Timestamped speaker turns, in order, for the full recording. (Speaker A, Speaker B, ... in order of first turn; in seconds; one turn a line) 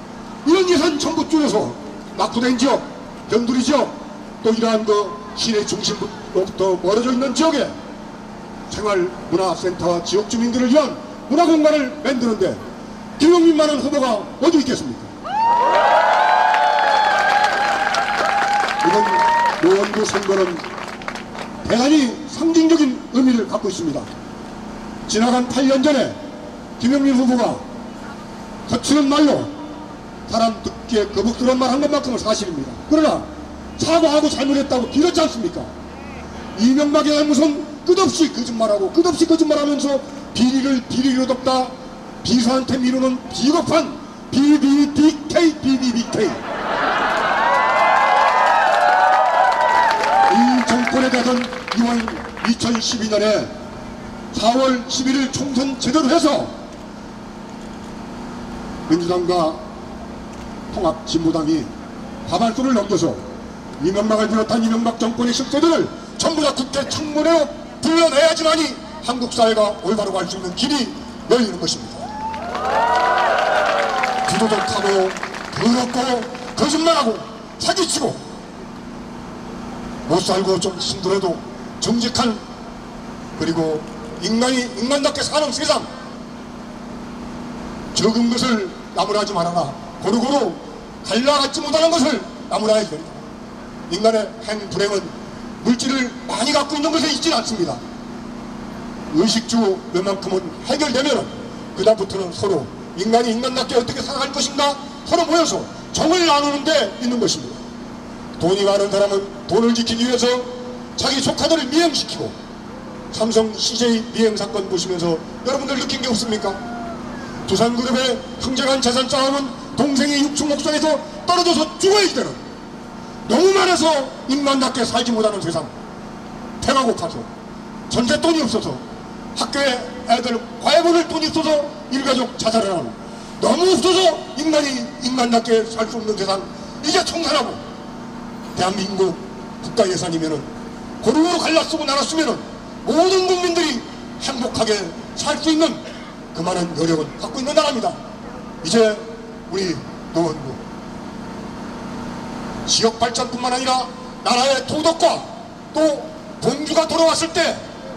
Speaker A: 0.5-7.8
Speaker A: 8.7-12.6
Speaker A: 13.2-15.1
Speaker A: 18.8-20.6
Speaker A: 21.6-24.1
Speaker A: 25.1-26.2
Speaker A: 26.8-27.6
Speaker A: 28.7-29.5
Speaker A: 30.3-35.7
Speaker A: 36.6-46.4
Speaker A: 50.3-53.5
Speaker A: 54.3-56.5
Speaker A: 58.9-59.6
Speaker A: 60.7-61.7
Speaker A: 62.3-63.2
Speaker A: 63.8-72.0
Speaker A: 74.2-78.2
Speaker A: 80.1-82.4
Speaker A: 83.4-85.9
Speaker A: 87.9-93.2
Speaker A: 93.9-97.8
Speaker A: 99.1-107.6
Speaker A: 108.4-112.3
Speaker A: 113.1-116.6
Speaker A: 117.5-122.4
Speaker A: 123.3-125.7
Speaker A: 126.6-127.3
Speaker A: 127.9-128.8
Speaker A: 129.3-137.6
Speaker A: 138.6-140.5
Speaker A: 141.0-148.0
Speaker A: 148.6-150.6
Speaker A: 152.7-157.7